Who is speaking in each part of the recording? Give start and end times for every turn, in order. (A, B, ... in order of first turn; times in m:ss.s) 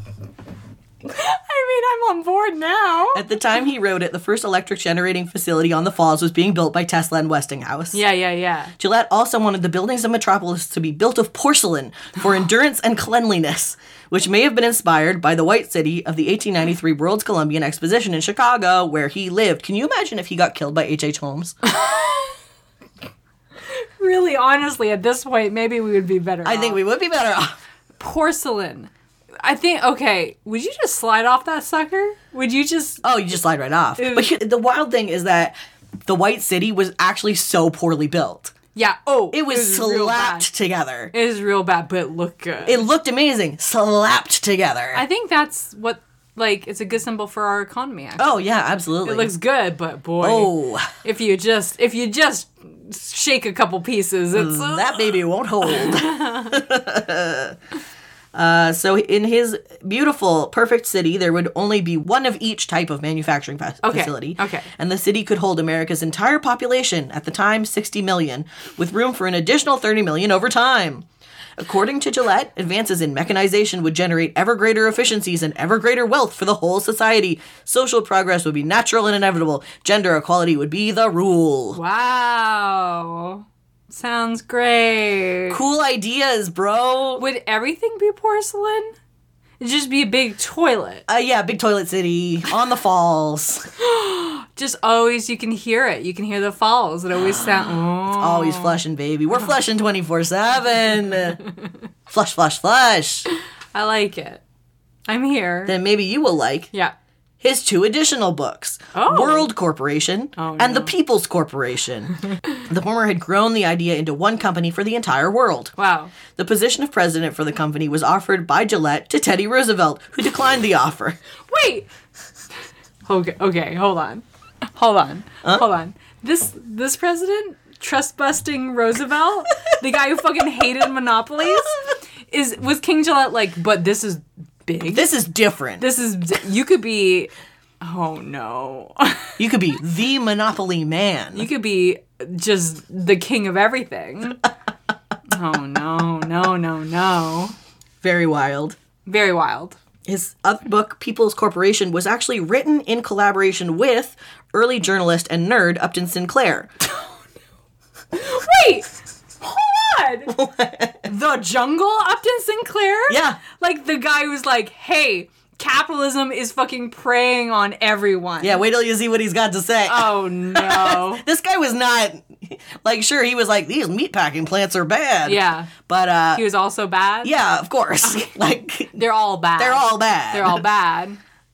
0:01.1-0:03.2 A
0:03.1-0:08.0 B
0:07.9-0:08.7 A
0:08.8-0:21.6 B
0:21.7-0:22.4 A
0:23.7-0:26.8 A
0:26.4-0:27.6 B
0:28.0-0:28.9 A
0:29.4-0:33.0 A
0:33.0-0:38.5 B
0:34.0-0:34.3 A
0:38.8-0:40.5 A
0:39.3-0:41.1 B
0:41.1-0:42.8 A
0:42.6-0:45.0 B
0:44.9-0:48.3 A
0:48.2-0:49.3 B
0:49.0-0:56.6 A
0:50.2-0:50.9 B
0:54.3-0:57.6 B
0:58.3-1:11.0 B
1:03.8-1:04.7 A
1:11.6-1:21.8 B
1:21.7-1:25.6 A
1:25.5-1:27.2 B
1:27.2-1:29.0 A
1:29.6-1:31.0 A
1:31.1-1:33.7 B
1:33.8-1:38.8 A
1:37.2-1:41.4 B
1:42.1-1:43.3 B
1:43.7-1:44.4 A
1:45.1-1:45.8 A
1:45.7-1:46.7 B
1:47.4-1:55.7 B
1:48.9-1:49.5 A
1:50.4-1:50.9 A
1:55.8-1:56.1 A
1:56.3-2:01.2 B
2:01.5-2:01.9 A
2:03.1-2:04.2 A
2:04.8-2:11.8 A
2:12.3-2:15.1 A
2:14.9-2:15.8 B
2:15.8-2:17.3 A
2:17.8-2:19.3 A
2:19.4-2:21.5 B
2:21.3-2:24.4 A
2:25.3-2:27.6 A
2:28.0-2:28.8 B
2:29.1-2:29.8 A
2:30.1-2:36.7 B
2:38.1-2:40.3 A
2:40.3-2:41.1 B
2:41.0-2:48.6 A
2:43.1-2:43.4 B
2:48.4-2:56.4 B
2:49.9-2:51.2 A
2:55.2-2:55.7 A
2:56.4-2:57.3 A
2:57.2-2:59.0 B
2:58.0-2:58.4 A
2:59.0-3:01.2 A
2:59.6-3:00.6 B